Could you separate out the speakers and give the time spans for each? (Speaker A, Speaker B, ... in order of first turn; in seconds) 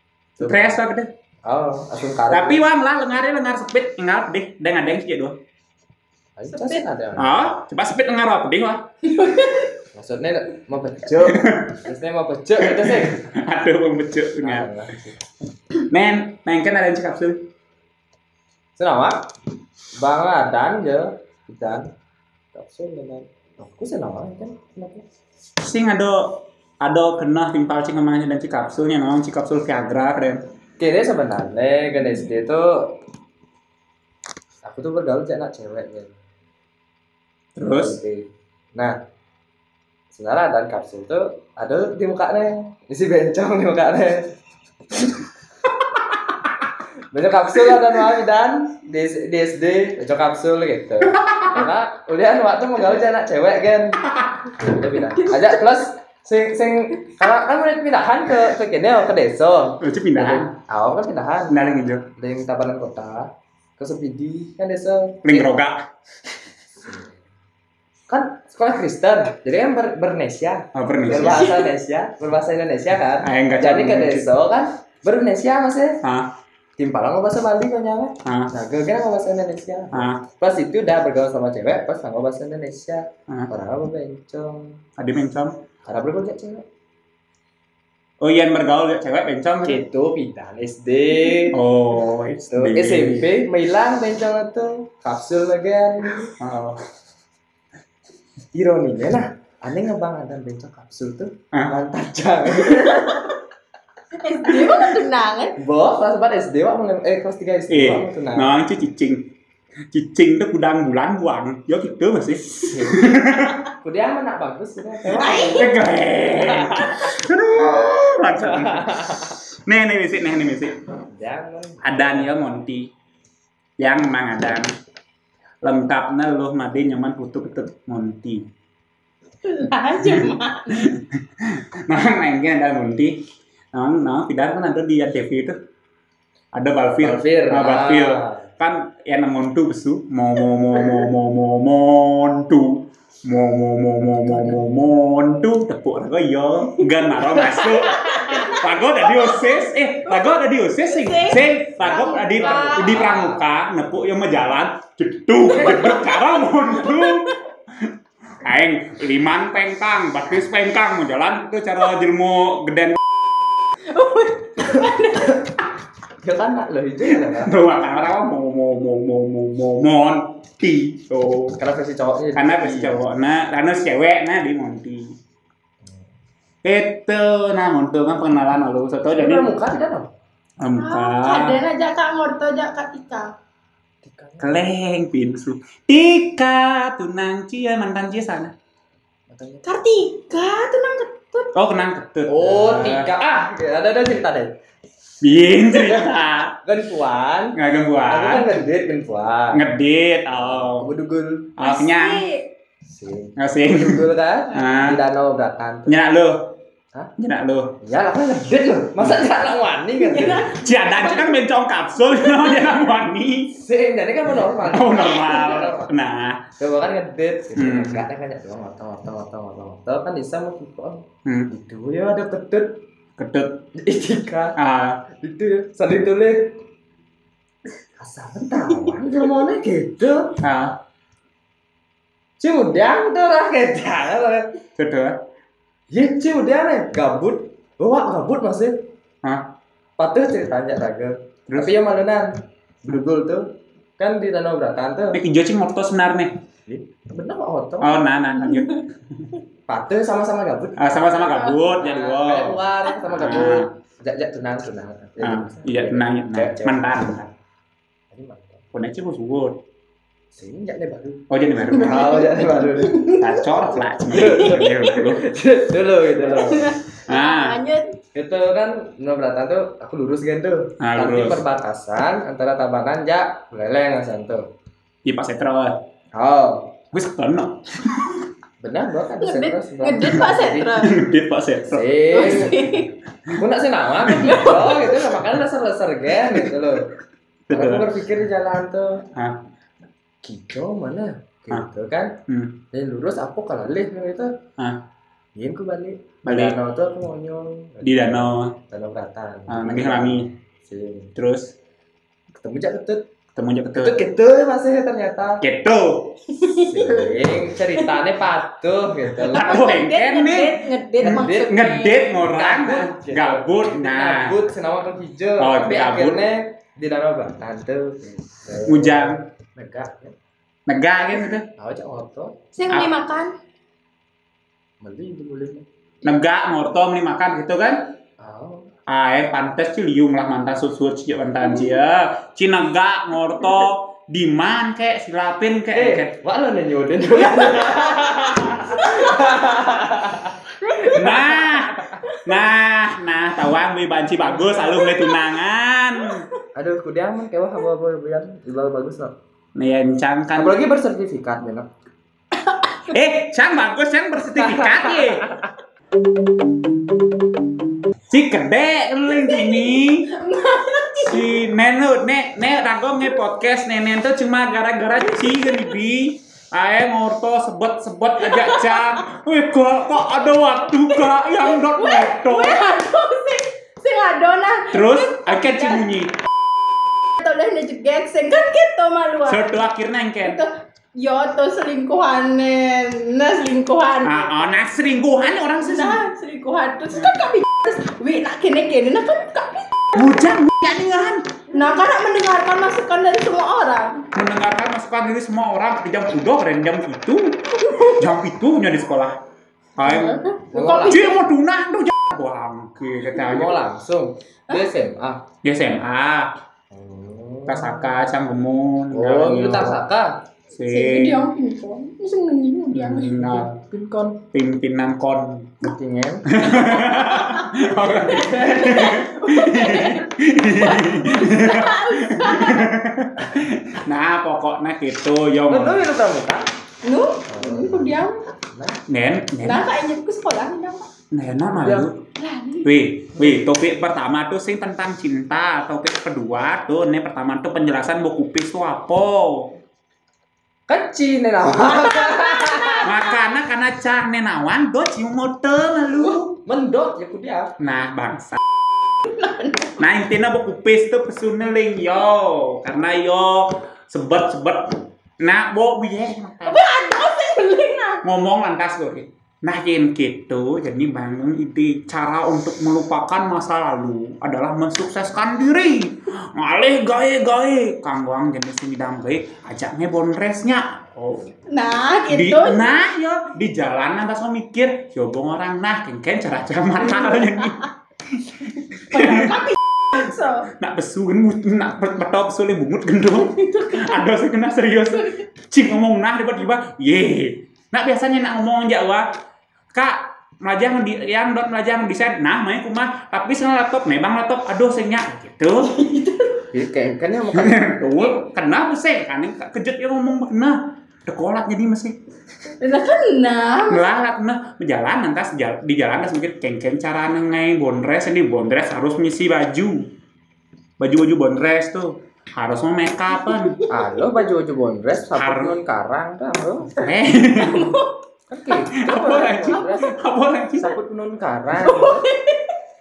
Speaker A: 0.4-0.8, 1.4-2.6, 6.4-7.6, 9.9-13.2, 14.4-15.2, 18.8-19.2, 20.0-21.9, 22.5-25.0, 30.8-32.9, 34.6-36.1, 37.7-39.0, 40.1-44.2, 47.1-61.6, 62.1-65.5, 68.1-76.0, 76.8-84.8, 85.8-86.6, 89.6-91.6, 92.5-96.3, 98.5-103.4, 105.5-108.6, 112.6-117.0, 118.3-119.3, 121.1-122.2, 137.0-138.4, 147.9-148.4, 152.4-153.4, 155.6-155.9, 166.2-167.5, 171.6-173.0, 179.1-180.1, 184.0-184.6, 189.3-189.6, 192.3-194.5, 195.7-197.6, 198.1-199.6, 200.3-201.5, 202.9-205.9, 207.8-210.5, 213.6-215.9, 216.6-222.8, 223.8-224.6, 225.2-226.5, 228.0-230.4, 232.4-234.5, 235.9-238.8, 240.0-243.5, 244.0-245.2, 246.7-248.1, 249.7-257.1, 258.1-258.6, 260.3-263.2, 264.1-266.8, 268.1-274.4, 276.1-276.7, 278.6-280.8, 281.7-282.8, 283.3-286.9, 287.5-289.0, 290.2-292.1, 292.7-294.3, 295.4-301.1, 302.3-303.1, 303.7-305.4, 306.5-309.8, 311.0-311.6, 312.1-320.1, 321.6-322.3, 324.8-325.6, 328.2-328.7, 335.7-341.5, 346.5-349.1, 350.3-351.7, 354.4-355.5, 400.5-401.0, 403.1-405.2, 406.7-407.9, 408.9-410.2, 413.1-414.2, 415.6-416.6, 425.5-426.5, 427.3-428.0, 428.5-428.8, 431.5-431.9, 440.7-442.9, 446.1-447.6, 496.5-497.7, 513.7-516.8, 518.3-520.0, 520.6-522.0
Speaker B: 0.4-1.1, 2.3-5.4, 7.2-8.9, 11.2-11.8, 12.6-14.7, 15.9-17.4, 25.6-30.4, 37.5-38.0, 51.1-51.6, 59.8-60.5, 61.5-62.0, 65.2-65.8, 70.7-71.5, 73.2-74.3, 76.0-76.3, 78.2-78.5, 79.9-80.2, 85.0-85.5, 88.2-89.8, 91.5-93.3, 96.4-96.8, 107.7-109.3, 109.9-113.6, 115.5-120.8, 121.8-122.9, 123.8-124.7, 125.6-128.4, 130.0-133.2, 133.7-135.6, 136.5-157.9, 158.4-163.0, 167.1-171.6, 172.3-175.1, 176.6-179.5, 180.6-181.6, 184.4-188.5, 191.5-193.1, 195.2-196.5, 197.5-198.6, 199.5-200.9, 201.6-202.3, 203.4-205.0, 205.8-206.6, 207.2-207.7, 210.4-213.6, 214.7-216.4, 217.6-218.1, 223.2-223.6, 224.6-225.0, 230.4-230.8, 234.8-235.2, 239.2-239.5, 241.5-241.8, 245.1-246.3, 247.8-249.3, 250.8-253.7, 255.2-257.3, 258.7-259.6, 261.3-262.3, 263.1-265.2, 267.1-267.6, 270.8-271.4, 275.0-275.8, 276.9-278.2, 280.7-281.9, 287.5-287.9, 289.1-289.4, 292.3-292.6, 294.6-294.8, 296.2-296.6, 297.8-298.5, 299.5-300.2, 301.1-301.5, 303.4-304.0, 305.4-306.3, 309.3-314.4, 315.4-316.2, 318.6-319.2, 320.7-321.5, 326.0-327.9, 328.9-336.1, 340.9-346.2, 349.6-350.6, 352.9-355.2, 358.1-360.1, 361.1-372.9, 374.7-376.2, 379.2-380.4, 384.0-386.0, 389.9-391.4, 394.1-399.2, 399.8-400.3, 400.9-403.6, 405.4-406.3, 407.5-409.8, 410.5-411.3, 412.7-413.5, 414.3-415.7, 416.3-425.8, 428.9-429.7, 431.1-432.0, 432.6-439.5, 442.8-446.3, 447.6-448.4, 449.8-456.6, 458.0-471.3, 472.1-479.4, 480.6-489.1, 489.7-495.8, 497.3-502.0, 503.7-509.9, 510.8-513.6, 515.1-515.5, 516.7-517.8, 518.7-520.8
Speaker C: 6.5-6.8, 9.1-9.7, 71.2-71.7, 104.1-105.5, 115.1-115.7, 129.4-130.9, 147.7-150.3, 150.9-153.1, 155.6-157.3, 163.9-165.4, 180.7-183.3, 189.6-191.5, 201.6-202.5, 210.0-211.4, 212.2-212.7, 248.4-248.8, 261.8-263.3, 264.2-265.1, 266.3-268.0, 279.2-281.0, 282.1-282.9, 284.2-284.9, 306.4-307.1, 309.3-312.1, 322.5-323.3, 338.8-339.2, 344.6-345.2, 352.5-352.8, 359.2-361.4, 368.2-369.0, 370.9-375.9, 377.2-379.5, 380.2-384.5, 385.6-390.2, 391.5-394.0, 397.6-398.1, 399.8-401.2, 410.6-413.2, 416.9-417.5, 418.1-422.7, 426.8-428.3, 429.4-430.9, 432.2-432.7, 442.1-442.8, 449.0-449.8, 456.4-458.0, 471.5-472.7, 478.9-480.5, 483.2-484.0, 495.7-496.4, 502.6-503.9, 513.3-513.8, 517.4-517.9, 521.6-522.5